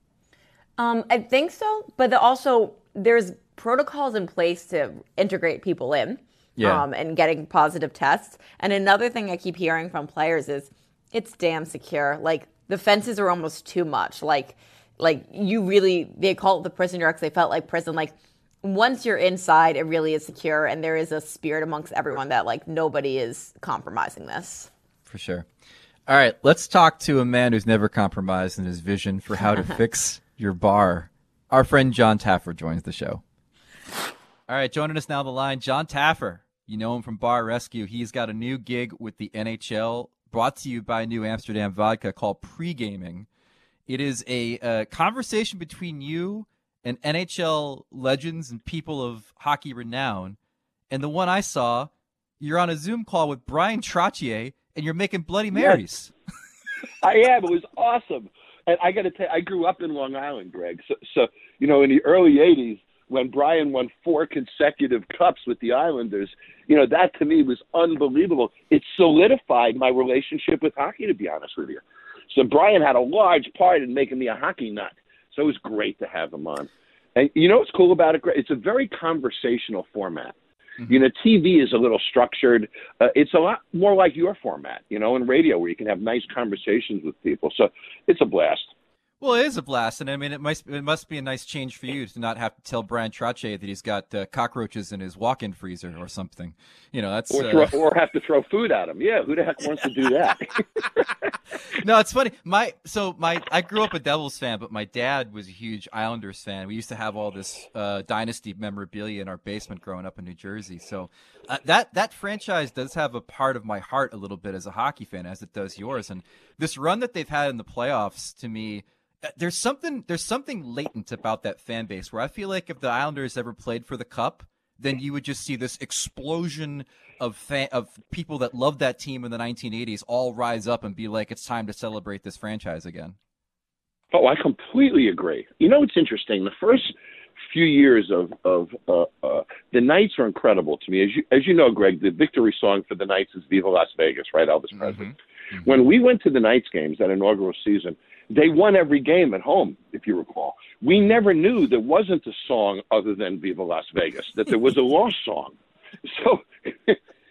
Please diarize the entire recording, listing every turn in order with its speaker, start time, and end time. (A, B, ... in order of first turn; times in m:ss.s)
0:00.8-0:24.7 A
0:06.6-0:06.8 B
0:25.1-0:25.5 B
0:26.1-0:33.2 B
0:34.5-0:43.3 B
0:43.9-0:50.4 B
0:50.9-0:56.1 B
0:55.5-0:55.8 C
0:57.0-1:20.4 C
1:20.9-1:28.7 C
1:29.2-1:37.8 B
1:37.3-1:41.1 C
1:41.8-2:13.2 B
2:14.1-2:16.9 C
2:17.5-2:25.1 C
2:24.8-2:25.6 B
2:25.6-2:37.0 C